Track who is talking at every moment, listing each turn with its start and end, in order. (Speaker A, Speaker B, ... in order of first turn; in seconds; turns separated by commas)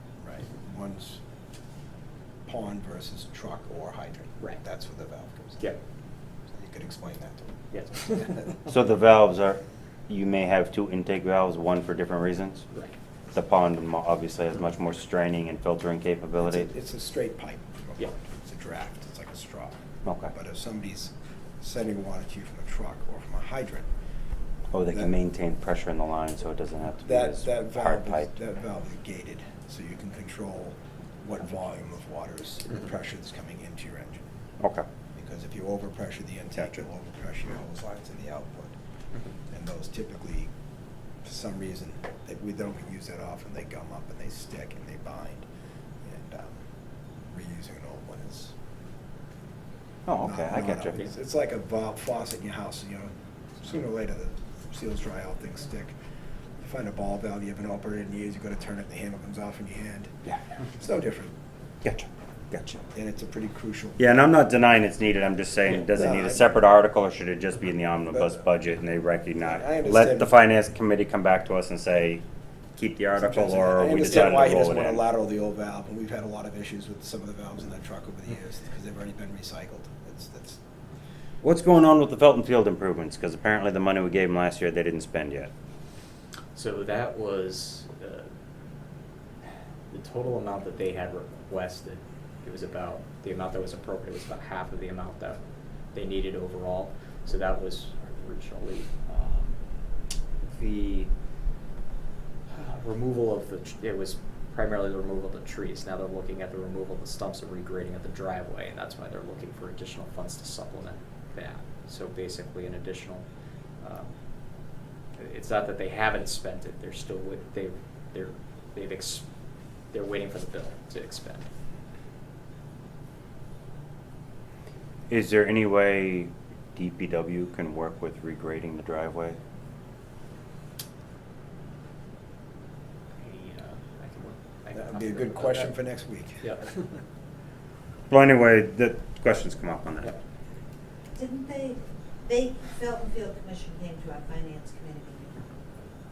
Speaker A: 0.2-1.2, Speaker A: 2.5-5.8, Speaker A: 6.5-8.4, Speaker B: 7.7-8.5, Speaker C: 8.7-12.7, Speaker C: 13.3-16.7, Speaker A: 16.4-23.9, Speaker C: 20.1-20.3, Speaker C: 24.7-28.4, Speaker A: 27.1-34.2, Speaker A: 35.1-38.7, Speaker C: 36.6-36.8, Speaker A: 39.5-40.5, Speaker A: 41.2-45.5, Speaker A: 46.0-46.6, Speaker A: 47.2-48.5, Speaker C: 50.1-51.0, Speaker A: 50.2-56.0, Speaker A: 56.6-60.1, Speaker A: 60.8-61.3, Speaker C: 61.8-62.8, Speaker A: 62.9-64.2, Speaker C: 64.0-72.2, Speaker A: 65.7-66.5, Speaker A: 68.1-68.4, Speaker A: 69.4-70.3, Speaker C: 72.8-75.0, Speaker A: 73.2-80.6, Speaker C: 81.4-85.5, Speaker B: 86.5-88.3, Speaker B: 89.9-95.4, Speaker B: 96.0-99.6, Speaker B: 100.4-101.1, Speaker B: 102.5-113.3, Speaker B: 113.8-114.1, Speaker B: 115.2-119.3, Speaker B: 119.9-121.5, Speaker C: 125.1-129.4, Speaker B: 133.2-135.8, Speaker A: 134.7-136.5, Speaker B: 136.4-136.8, Speaker C: 138.1-140.1, Speaker D: 141.2-145.5